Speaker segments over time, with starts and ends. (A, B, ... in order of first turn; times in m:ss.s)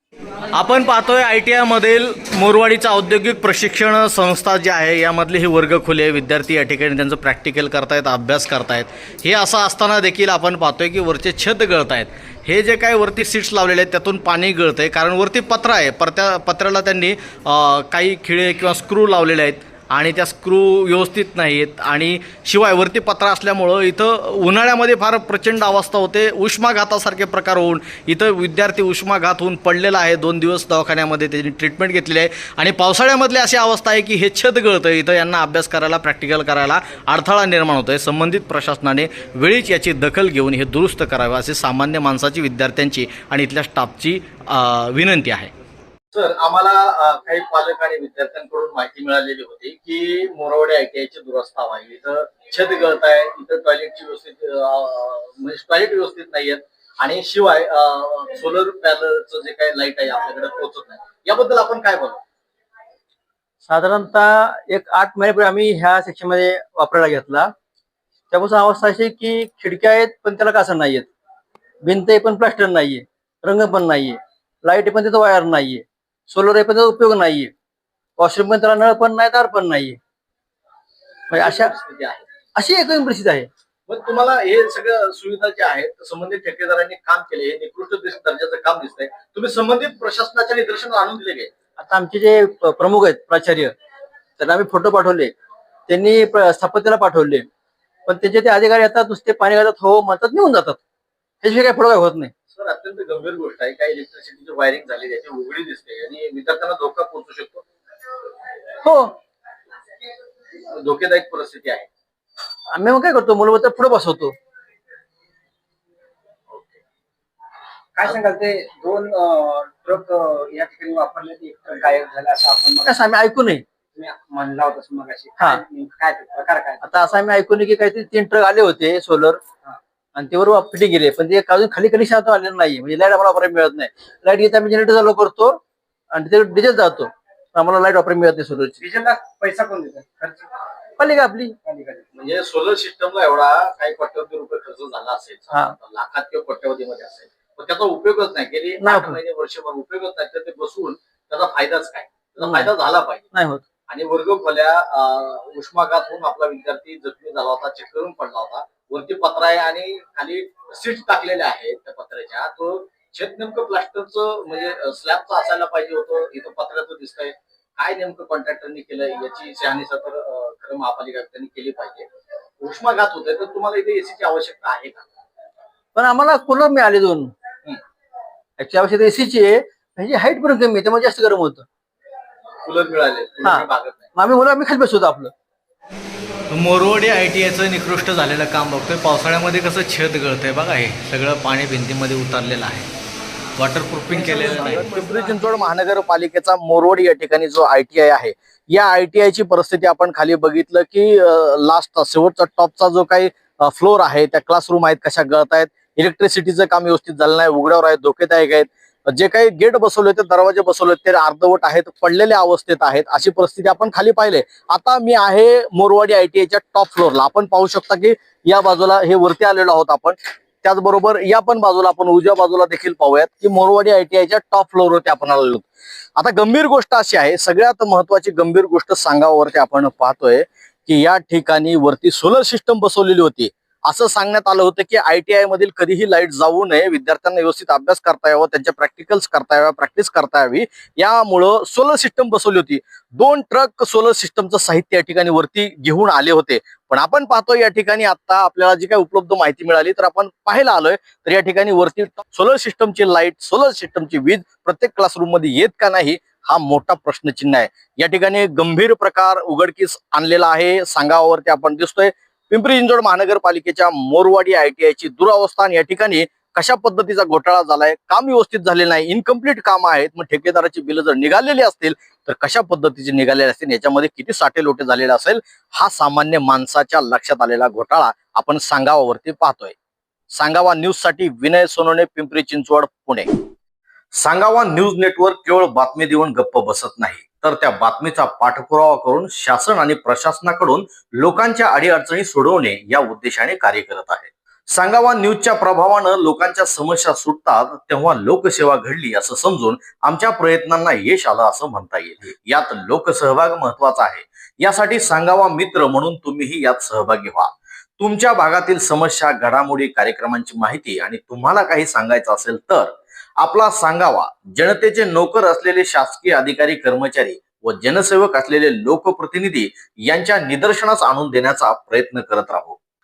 0:00.5-0:45.5 A
0:46.1-1:02.2 A
1:03.7-1:07.5 B
1:08.3-1:11.1 B
1:11.8-1:17.5 B
1:18.2-1:20.0 B
1:21.3-1:21.7 B
1:21.3-1:22.2 A
1:22.6-1:23.5 B
1:23.9-1:31.5 A
1:31.8-1:33.7 B
1:34.4-1:35.3 B
1:35.9-1:37.5 B
1:38.0-1:40.8 B
1:41.4-1:42.3 B
1:42.5-1:47.6 A
1:48.8-1:49.1 B
1:50.7-1:51.9 A
1:52.7-1:54.3 B
1:58.0-2:03.0 C
2:02.8-2:03.6 B
2:03.9-2:07.0 C
2:06.8-2:09.4 B
2:10.2-2:15.6 B
2:16.1-2:18.8 B
2:18.8-2:20.5 C
2:21.0-2:21.5 B
2:21.6-2:22.1 C
2:22.1-2:33.3 A
2:28.8-2:29.2 B
2:32.4-2:32.7 B
2:33.3-2:33.6 B
2:33.9-2:52.1 A
2:52.6-2:55.1 A
2:55.9-2:57.3 B
2:58.6-3:01.6 B
3:02.6-3:04.1 A
3:03.4-3:05.3 B
3:06.5-3:12.9 A
3:13.6-3:45.6 A
3:14.2-3:14.8 C
3:46.2-4:39.7 A
4:40.3-4:43.3 A
4:44.2-5:22.8 A